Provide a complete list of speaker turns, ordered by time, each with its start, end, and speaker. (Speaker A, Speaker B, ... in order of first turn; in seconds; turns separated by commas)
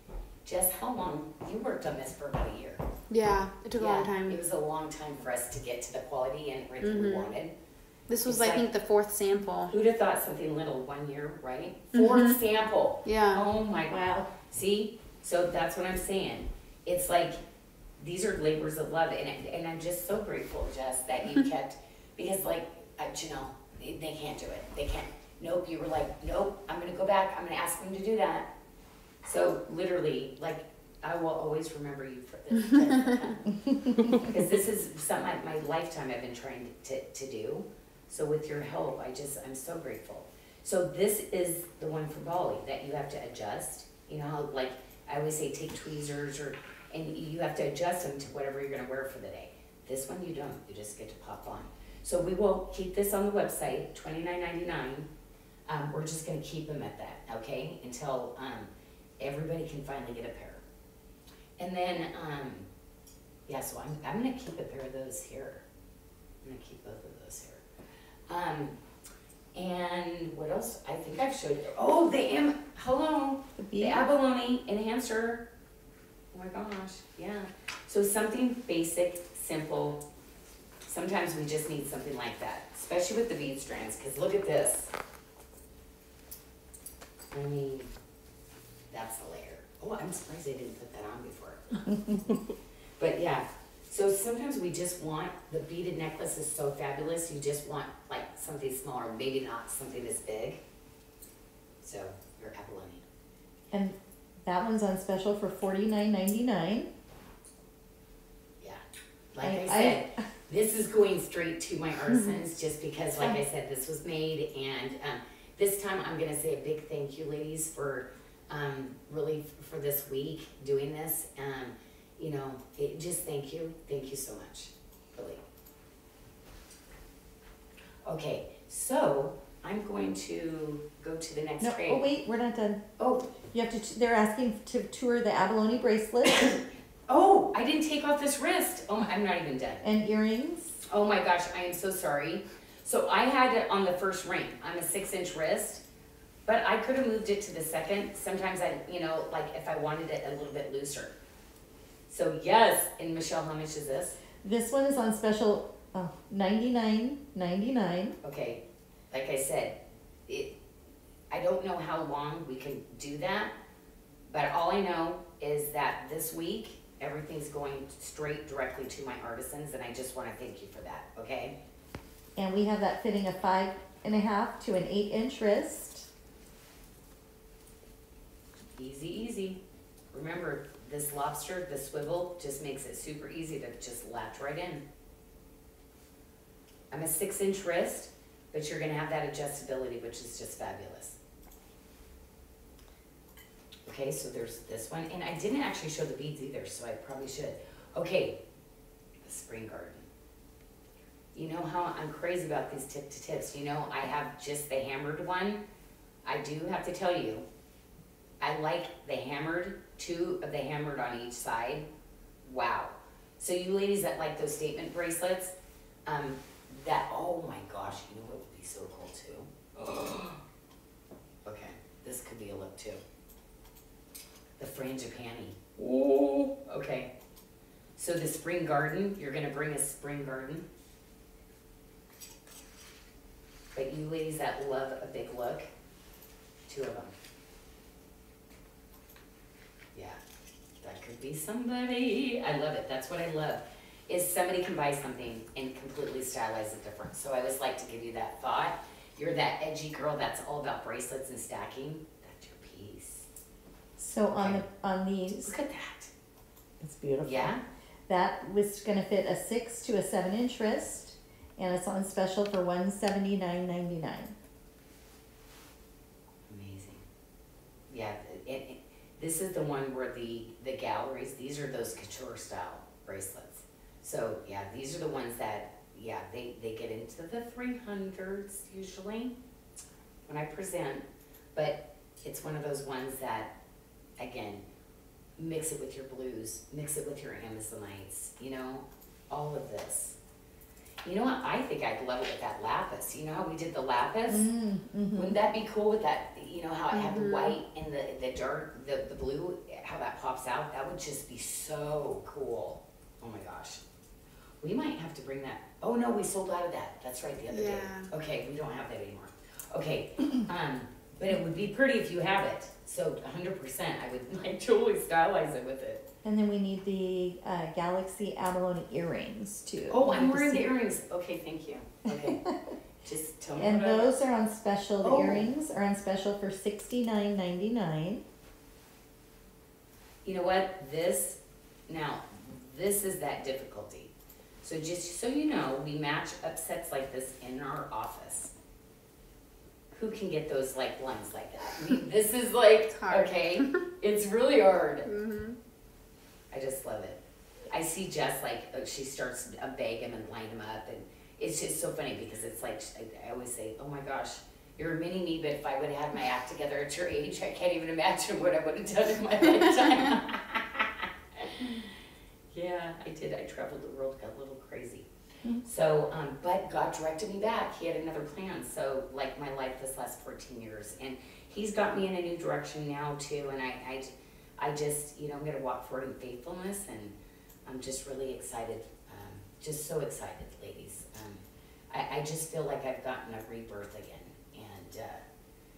Speaker A: 0.5-2.9, Speaker B: 3.1-4.4, Speaker A: 3.8-7.5, Speaker B: 6.8-7.3, Speaker B: 8.1-9.7, Speaker A: 8.2-8.7, Speaker A: 9.7-17.4, Speaker B: 11.9-12.4, Speaker B: 13.1-13.5, Speaker C: 13.9-14.3, Speaker A: 18.0-28.5, Speaker A: 29.2-55.1, Speaker A: 55.7-60.6, Speaker A: 61.6-62.7, Speaker A: 63.5-65.6, Speaker A: 66.4-67.6, Speaker A: 68.3-68.8, Speaker A: 69.5-75.5, Speaker C: 73.6-74.0, Speaker A: 76.3-80.0, Speaker A: 80.9-84.9, Speaker A: 87.3-87.9, Speaker A: 88.9-91.6, Speaker A: 93.0-100.6, Speaker A: 101.8-103.0, Speaker C: 103.7-106.9, Speaker A: 108.6-125.4, Speaker C: 109.4-110.3, Speaker A: 128.0-132.1, Speaker C: 131.6-132.8, Speaker A: 133.0-133.3, Speaker C: 133.5-136.5, Speaker A: 136.2-139.8, Speaker C: 139.8-140.8, Speaker A: 140.8-145.8, Speaker A: 146.4-151.2, Speaker A: 152.1-154.2, Speaker C: 154.4-158.2, Speaker A: 158.2-160.6, Speaker A: 161.3-163.5, Speaker A: 164.3-171.6, Speaker C: 172.4-176.1, Speaker A: 178.8-179.6, Speaker A: 180.1-184.8, Speaker A: 186.9-191.2, Speaker A: 193.9-198.4, Speaker A: 199.2-200.1, Speaker A: 201.3-205.6, Speaker A: 206.2-207.5, Speaker A: 208.4-211.9, Speaker A: 212.4-215.6, Speaker A: 216.1-220.4, Speaker A: 221.4-223.0, Speaker A: 224.6-227.1, Speaker A: 228.0-230.7, Speaker A: 233.7-235.7, Speaker A: 236.7-237.1, Speaker A: 239.9-240.2, Speaker A: 240.8-253.3, Speaker C: 254.0-255.5, Speaker A: 254.3-254.6, Speaker A: 255.3-256.1, Speaker C: 256.8-257.5, Speaker A: 257.2-257.6, Speaker C: 258.1-264.4, Speaker A: 266.5-267.0, Speaker A: 267.9-279.4, Speaker A: 280.3-281.0, Speaker A: 281.6-283.5, Speaker A: 284.2-284.6, Speaker A: 285.4-290.2, Speaker A: 291.0-294.5, Speaker C: 294.3-295.4, Speaker A: 295.1-303.8, Speaker B: 296.9-297.6, Speaker A: 304.6-316.1, Speaker B: 307.5-308.1, Speaker C: 316.2-320.6, Speaker A: 319.9-322.4, Speaker C: 322.1-322.6, Speaker A: 323.0-324.2, Speaker C: 323.6-328.2, Speaker A: 325.0-325.5, Speaker A: 330.2-338.5, Speaker A: 339.9-345.1, Speaker B: 342.9-343.8, Speaker B: 345.1-345.6, Speaker A: 346.5-347.2, Speaker A: 347.7-361.9, Speaker A: 362.5-365.1, Speaker A: 365.6-385.2